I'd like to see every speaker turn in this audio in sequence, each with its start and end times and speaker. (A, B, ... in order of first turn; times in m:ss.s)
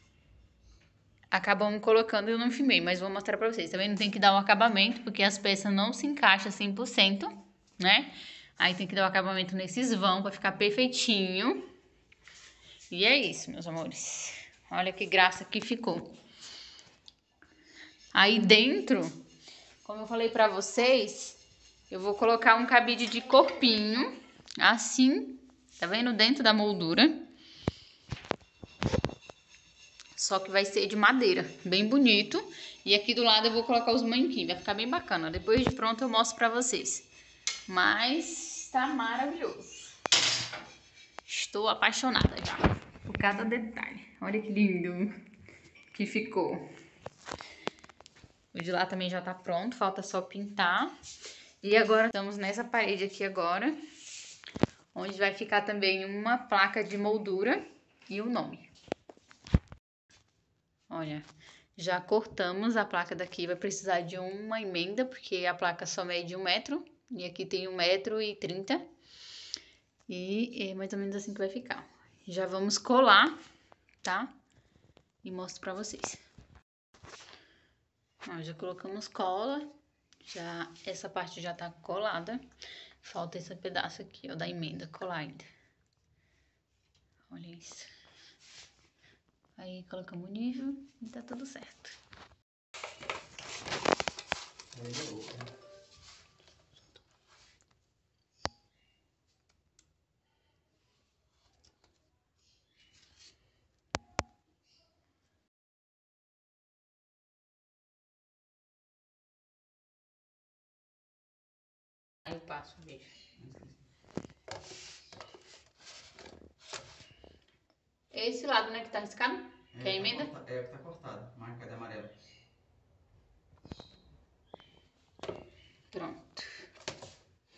0:01.3-0:11.7 A
0:12.9-0:16.1 A
0:18.1-0:19.2 A
0:19.8-0:21.4 A
0:21.9-0:27.3 A
0:30.2-0:37.1 A
0:37.7-0:40.0 A
0:41.2-0:45.1 A
0:45.9-0:46.6 A
0:48.5-0:50.9 A
0:51.6-0:53.8 A
0:54.9-0:58.7 A
1:00.9-1:08.8 A
1:10.1-1:13.4 A
1:14.0-1:14.3 A
1:15.2-1:16.2 A
1:18.2-1:19.7 A
1:20.2-1:22.4 A
1:23.0-1:25.5 A
1:27.3-1:27.9 A
1:29.6-1:32.0 A
1:34.7-1:35.5 B
1:52.2-1:53.2 A
1:53.4-1:53.7 B
1:58.1-2:00.3 A
1:59.7-2:02.1 B
2:05.9-2:06.7 A